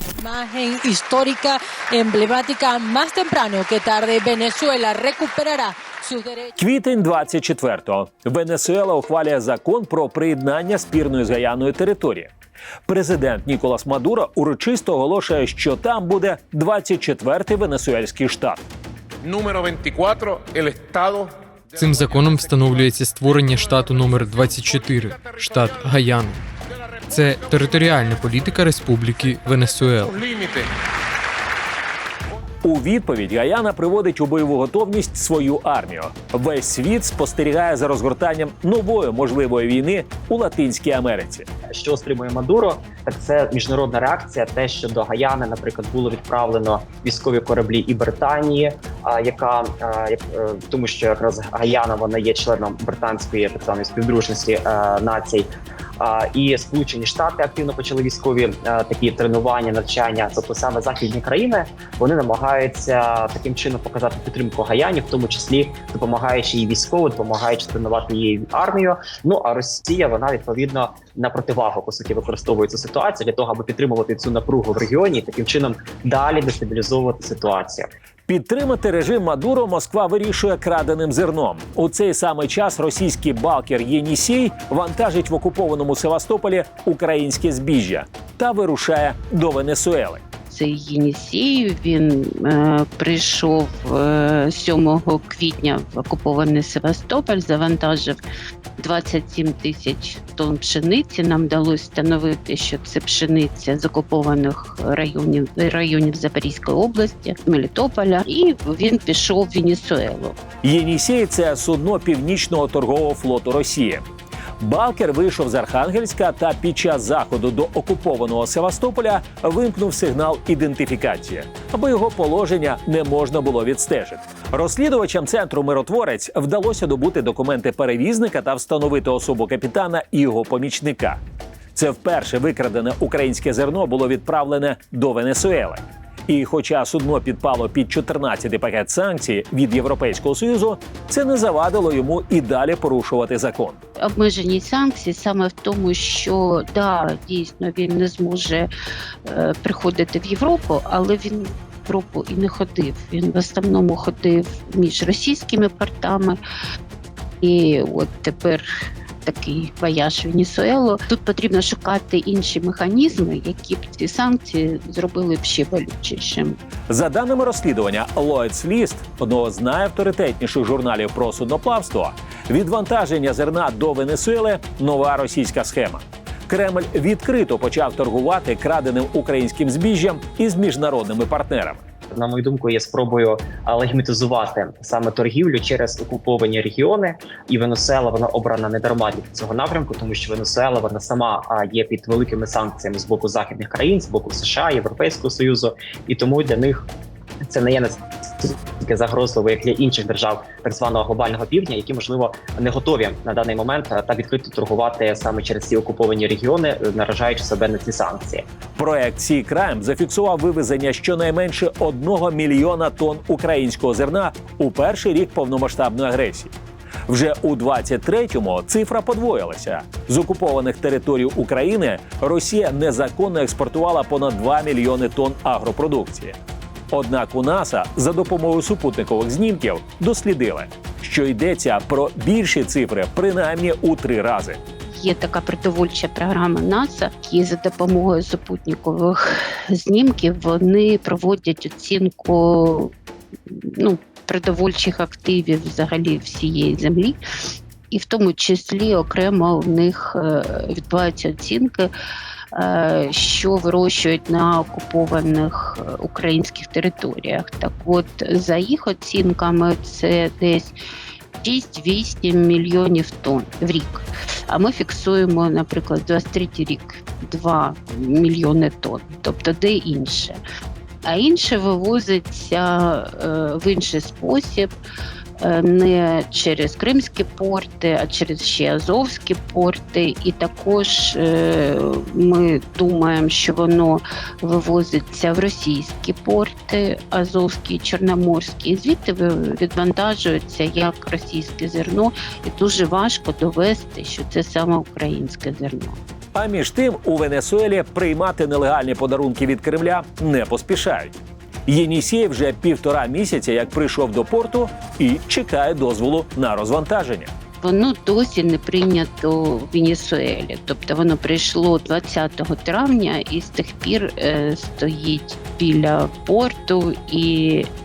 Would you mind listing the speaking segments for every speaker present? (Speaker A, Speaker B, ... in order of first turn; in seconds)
Speaker A: 0.2-6.4
Speaker B: 6.6-12.3, 12.9-18.6, 32.6-41.5, 78.3-90.2, 110.6-114.1, 114.6-131.2, 131.8-143.8, 166.9-181.8, 208.8-216.5, 217.1-226.4, 226.9-234.6, 296.4-301.1, 301.7-307.3
Speaker C: 19.2-21.3, 30.3-30.7
Speaker D: 21.8-26.4, 27.1-30.2
Speaker E: 41.7-77.9, 182.1-196.9, 197.4-208.4
Speaker F: 90.5-98.2, 98.8-110.4, 144.0-148.7, 149.3-156.4, 157.4-158.7, 159.2-166.6, 235.0-242.9, 243.5-247.2, 247.9-251.9, 252.5-260.8, 261.4-270.4, 271.1-274.7, 275.4-296.0, 307.6-317.7